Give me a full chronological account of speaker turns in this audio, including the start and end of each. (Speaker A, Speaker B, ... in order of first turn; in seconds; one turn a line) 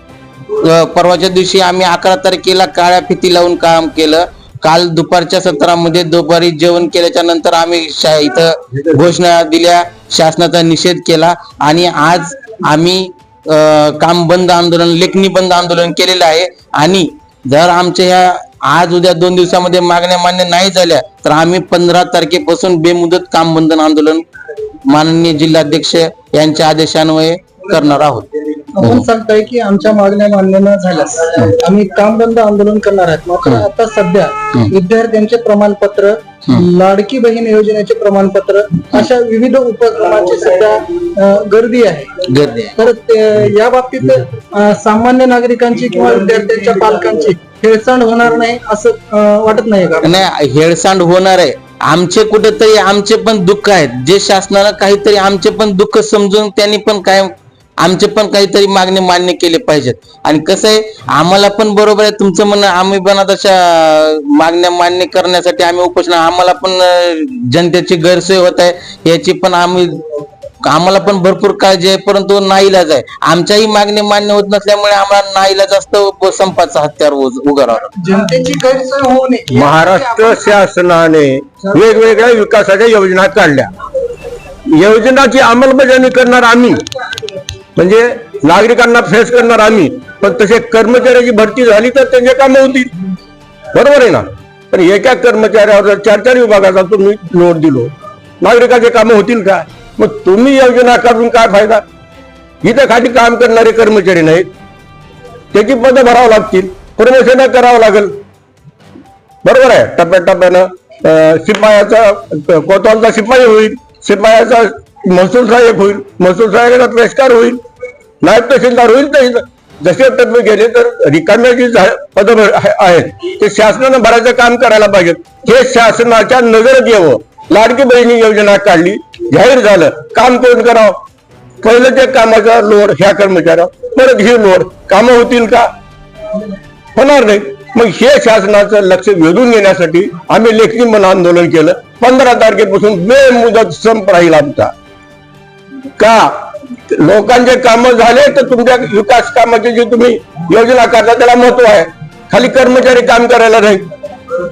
Speaker A: 0.5-24.2
Speaker A: 24.9-28.3
Speaker B: 28.8-42.2
Speaker A: 42.2-42.7
Speaker B: 42.8-50.2
Speaker A: 50.0-70.0
Speaker A: 70.6-77.9
Speaker B: 78.0-80.4
Speaker C: 79.5-83.7
Speaker C: 84.7-86.8
Speaker C: 87.8-92.9
Speaker C: 93.7-101.8
Speaker C: 102.6-104.5
Speaker C: 105.5-108.2
Speaker C: 109.4-117.6
Speaker C: 118.2-131.0
Speaker C: 131.6-135.7
Speaker C: 136.9-144.7
Speaker C: 146.0-153.9